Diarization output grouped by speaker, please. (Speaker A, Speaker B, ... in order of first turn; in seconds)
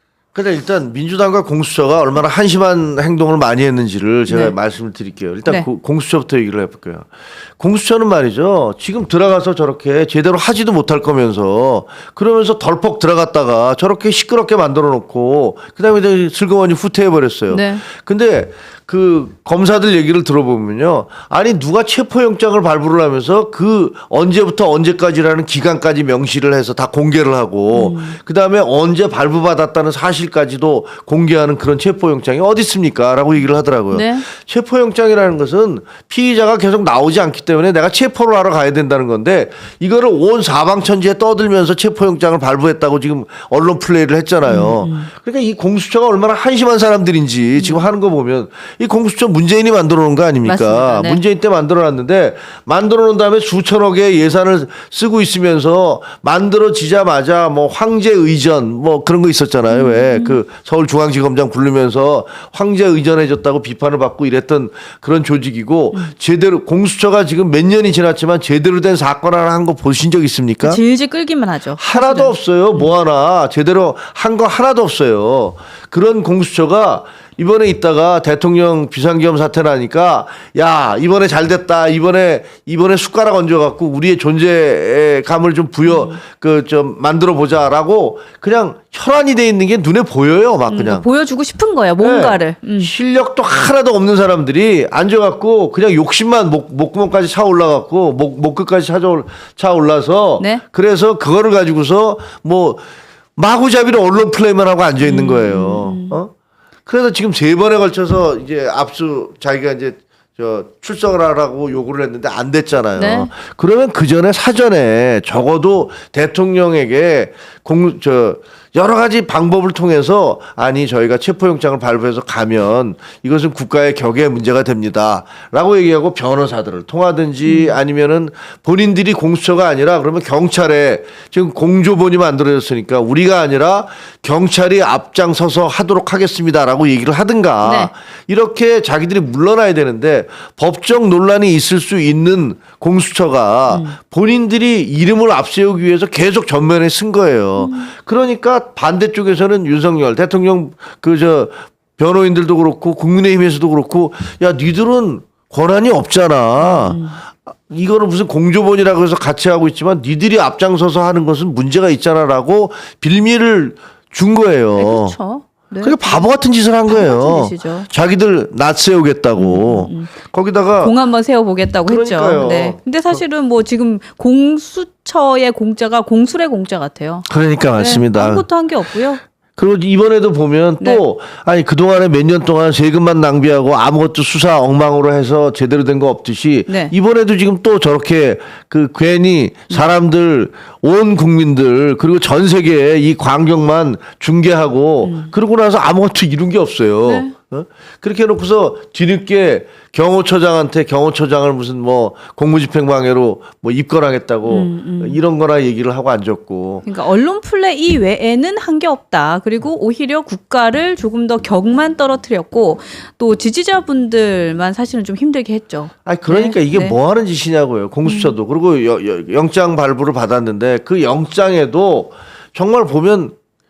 Speaker A: 0.3-70.8, 71.8-91.0, 92.0-102.8, 103.4-106.3, 106.8-157.0, 157.7-165.2, 165.8-170.9, 171.9-173.2, 177.3-178.5, 179.6-206.8, 216.0-223.3
Speaker B: 4.3-4.5, 17.5-17.8, 27.7-28.2, 33.9-34.2, 44.4-45.1, 47.5-47.9, 50.4-51.2, 59.7-60.4, 70.6-72.9, 85.8-86.2, 90.7-92.9, 105.0-106.2, 113.0-113.3, 127.5-127.8, 137.6-137.9, 143.7-144.0, 147.6-147.9, 156.6-157.2, 164.8-167.9, 169.3-170.1, 170.8-179.2, 186.7-186.9, 195.0-195.3, 197.0-197.3, 204.4-205.2, 206.8-216.9, 218.0-218.3